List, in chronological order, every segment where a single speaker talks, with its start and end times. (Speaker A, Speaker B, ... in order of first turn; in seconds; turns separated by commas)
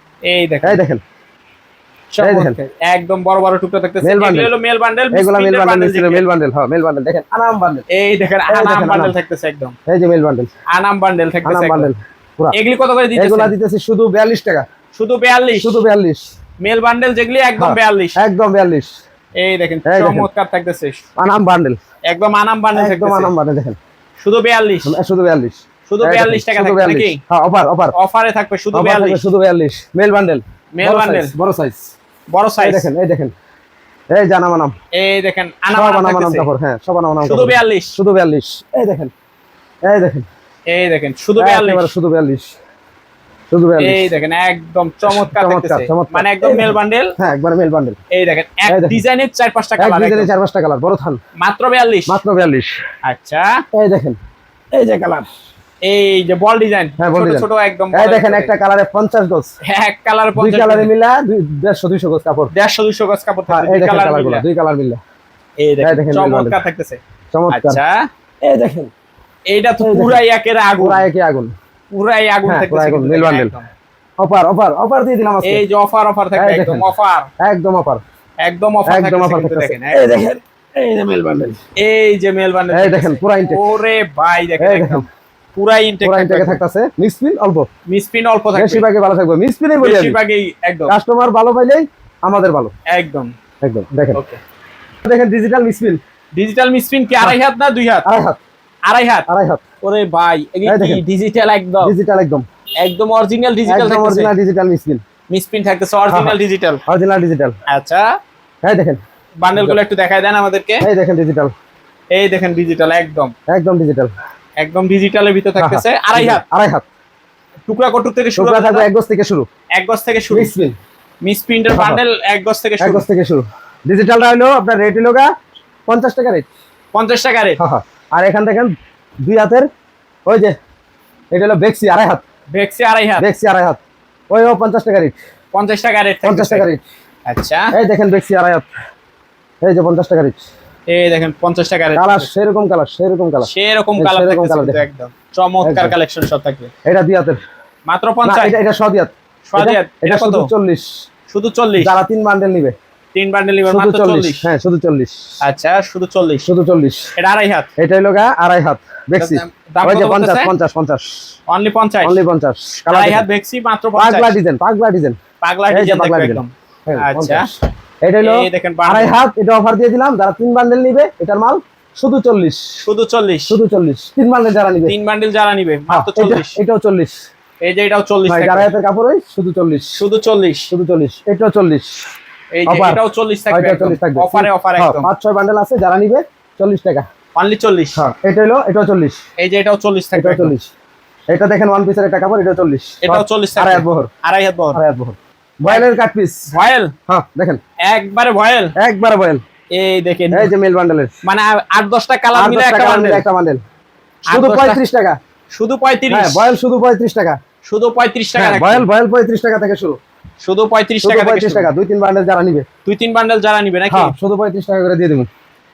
Speaker A: 0.3-0.8, Speaker B: 0.6-1.0, Speaker A: 2.1-6.2, Speaker B: 2.2-2.6, Speaker B: 4.0-4.5, Speaker B: 5.1-7.8, Speaker A: 7.9-9.8, Speaker B: 8.5-9.2, Speaker B: 9.9-10.5, Speaker A: 10.7-11.9, Speaker B: 11.4-12.6, Speaker A: 12.5-13.5, Speaker B: 13.2-14.7, Speaker A: 14.9-15.8, Speaker B: 15.5-16.2, Speaker A: 16.6-18.2, Speaker B: 17.6-18.9, Speaker A: 19.4-21.0, Speaker B: 19.9-20.3, Speaker B: 21.2-21.8, Speaker A: 22.1-23.3, Speaker B: 22.8-23.8, Speaker A: 24.2-24.9, Speaker B: 24.9-27.9, Speaker A: 25.9-27.2, Speaker A: 27.9-29.3, Speaker B: 28.7-31.9, Speaker A: 30.7-31.3, Speaker A: 32.3-32.9, Speaker B: 32.6-33.3, Speaker B: 34.1-34.7, Speaker A: 34.9-36.5, Speaker B: 35.7-39.1, Speaker A: 37.2-38.0, Speaker B: 39.9-40.3, Speaker A: 40.7-41.9, Speaker B: 41.4-42.5, Speaker B: 43.5-44.1, Speaker A: 43.8-47.2, Speaker B: 45.1-48.0, Speaker A: 48.1-50.3, Speaker B: 48.7-49.0, Speaker B: 49.8-51.2, Speaker A: 51.4-52.2, Speaker B: 52.1-52.7, Speaker A: 53.0-53.6, Speaker B: 53.7-54.2, Speaker B: 54.7-55.3, Speaker A: 55.8-58.5, Speaker B: 57.0-59.5, Speaker A: 59.6-60.9, Speaker B: 60.4-62.5, Speaker A: 62.5-64.5, Speaker B: 63.5-65.0, Speaker A: 65.6-67.0, Speaker B: 65.8-66.6, Speaker B: 67.3-67.8, Speaker A: 67.5-68.1, Speaker B: 68.4-68.9, Speaker A: 69.5-71.1, Speaker B: 69.8-70.2, Speaker B: 70.8-71.5, Speaker A: 71.9-73.7, Speaker B: 72.5-73.5, Speaker B: 74.2-75.6, Speaker A: 75.4-77.3, Speaker B: 76.4-78.0, Speaker A: 78.4-80.0, Speaker B: 78.9-81.6, Speaker A: 81.8-85.0, Speaker B: 82.7-83.8, Speaker B: 84.6-85.0, Speaker A: 85.5-86.6, Speaker B: 86.0-87.7, Speaker A: 87.9-88.9, Speaker B: 88.5-90.2, Speaker A: 89.8-90.9, Speaker B: 90.9-92.7, Speaker A: 92.9-93.3, Speaker B: 93.6-94.2, Speaker B: 95.0-96.0, Speaker A: 96.3-98.1, Speaker B: 98.1-98.4, Speaker A: 98.9-99.3, Speaker B: 99.3-99.6, Speaker A: 99.8-101.9, Speaker B: 100.7-101.0, Speaker B: 101.8-102.5, Speaker A: 102.8-104.3, Speaker B: 103.7-105.0, Speaker A: 105.3-106.8, Speaker B: 106.1-107.6, Speaker A: 107.7-108.1, Speaker B: 108.6-109.0, Speaker A: 109.4-110.8, Speaker B: 110.8-111.5, Speaker A: 112.1-113.3, Speaker B: 113.5-114.1, Speaker A: 114.6-116.4, Speaker B: 115.6-116.9, Speaker A: 117.7-118.9, Speaker B: 118.4-119.5, Speaker A: 119.8-120.5, Speaker B: 120.3-120.8, Speaker A: 121.2-123.1, Speaker B: 121.8-122.0, Speaker B: 122.8-125.3, Speaker B: 125.9-126.5, Speaker A: 126.9-127.6, Speaker B: 127.6-128.7, Speaker B: 129.2-129.7, Speaker B: 130.3-130.6, Speaker B: 131.3-132.2, Speaker A: 132.5-133.3, Speaker B: 133.2-135.2, Speaker A: 135.5-136.7, Speaker B: 136.2-136.8, Speaker A: 137.3-137.7, Speaker B: 137.7-138.7, Speaker B: 139.6-140.5, Speaker A: 140.9-142.3, Speaker B: 141.9-144.8, Speaker A: 143.4-146.7, Speaker B: 145.6-145.9, Speaker B: 146.9-147.4, Speaker A: 147.9-148.6, Speaker B: 148.2-150.9, Speaker A: 149.5-150.5, Speaker A: 151.3-152.0, Speaker B: 151.8-152.8, Speaker A: 153.1-154.5, Speaker B: 153.7-155.2, Speaker A: 155.4-156.5, Speaker B: 156.5-157.1, Speaker A: 157.2-157.7, Speaker B: 157.8-161.2, Speaker A: 159.2-160.5, Speaker A: 161.5-162.2, Speaker B: 162.0-163.3, Speaker A: 162.8-164.3, Speaker B: 164.0-165.2, Speaker A: 165.4-167.5, Speaker B: 165.7-167.5, Speaker B: 168.0-172.6, Speaker A: 168.2-169.1, Speaker A: 172.8-173.6, Speaker B: 173.5-174.9, Speaker A: 174.9-176.6, Speaker B: 175.9-177.2, Speaker A: 177.6-178.7, Speaker B: 178.3-180.0, Speaker A: 180.0-180.7, Speaker B: 180.7-182.0, Speaker A: 182.5-185.1, Speaker B: 182.7-187.1, Speaker A: 187.4-188.0, Speaker B: 188.0-189.2, Speaker A: 189.4-190.6, Speaker B: 190.2-190.7, Speaker B: 191.3-194.1, Speaker A: 193.0-194.8, Speaker B: 194.7-196.5, Speaker A: 196.5-196.9, Speaker B: 197.1-197.6, Speaker A: 197.9-198.7, Speaker B: 198.8-199.4, Speaker A: 199.7-200.5, Speaker B: 200.3-201.1, Speaker A: 201.2-203.2, Speaker B: 202.3-203.6, Speaker A: 204.3-204.8, Speaker B: 204.3-205.2, Speaker A: 205.5-206.5, Speaker B: 206.1-207.4, Speaker A: 207.7-208.8, Speaker B: 208.4-210.0, Speaker A: 210.4-211.7, Speaker B: 211.0-212.7, Speaker A: 212.8-214.2, Speaker B: 213.9-215.3